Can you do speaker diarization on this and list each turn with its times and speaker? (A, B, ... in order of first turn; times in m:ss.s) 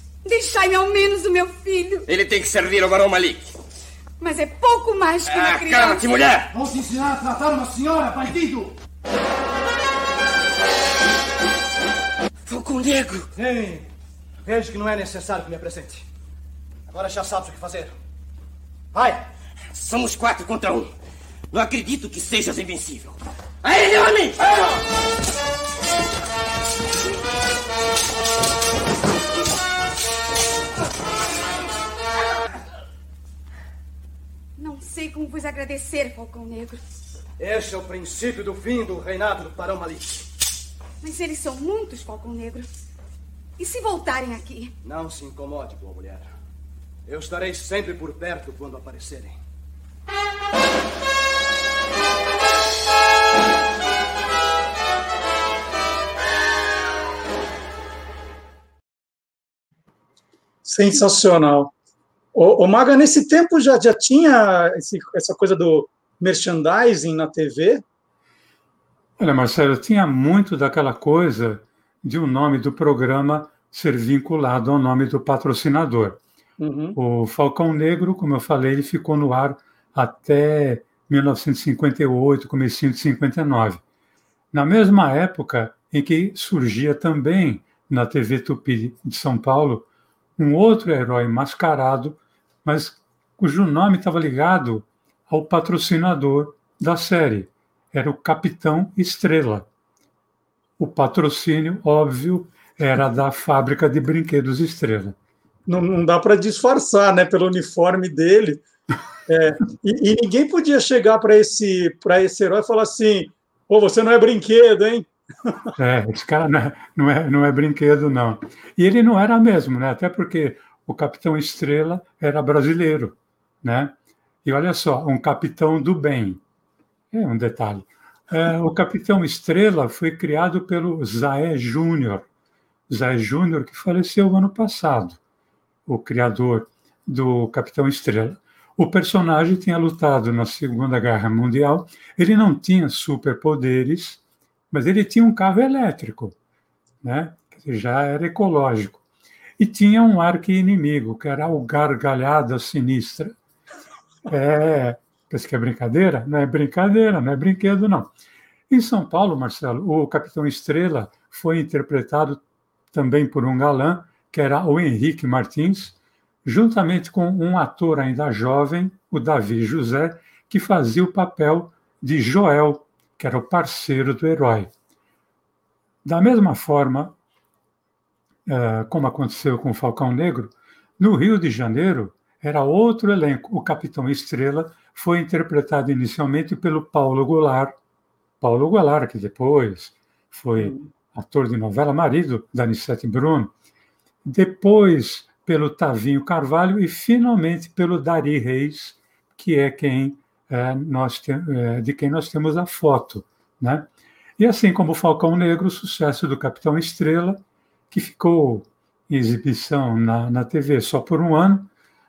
0:00.2-0:02.0 A
0:02.0-0:03.5 B
0:04.2-0:06.0 A
0:05.3-0:06.5 B
0:06.5-0:08.7 C
0:12.4-0:13.3 B
0:13.3-0:13.9 C
0:14.4-0:16.1 C
0:16.9-0:17.9 C
0:18.9-0:19.2 C
0:19.7-0:20.9 B
0:21.5-0:24.4 B
0:34.6-0:36.8 A
0:37.4-0:40.2 C
0:41.0-0:42.7 A
0:43.6-0:44.7 A
0:44.8-0:46.3 C
0:47.1-0:49.4 C
1:00.6-1:01.7 D
1:02.3-1:07.8 D
1:09.2-1:16.2 E
1:16.6-1:17.0 D
1:16.9-1:23.8 E
1:24.5-1:29.8 E
1:30.4-1:39.7 E
1:40.8-1:45.2 E
1:45.7-1:48.6 D
1:49.3-1:55.5 D
1:55.8-2:03.9 E
2:04.4-2:06.4 E
2:07.1-2:12.3 E
2:12.9-2:15.2 E
2:15.9-2:24.2 E
2:24.7-2:26.4 E
2:27.0-2:29.0 E
2:29.6-2:33.3 E
2:34.3-2:38.1 E
2:38.7-2:42.4 E
2:42.9-2:54.7 E
2:56.0-2:57.2 E
2:58.5-3:07.8 E
3:08.4-3:13.5 E
3:10.6-3:10.9 D
3:14.2-3:23.9 E
3:24.4-3:27.4 E
3:27.9-3:31.7 E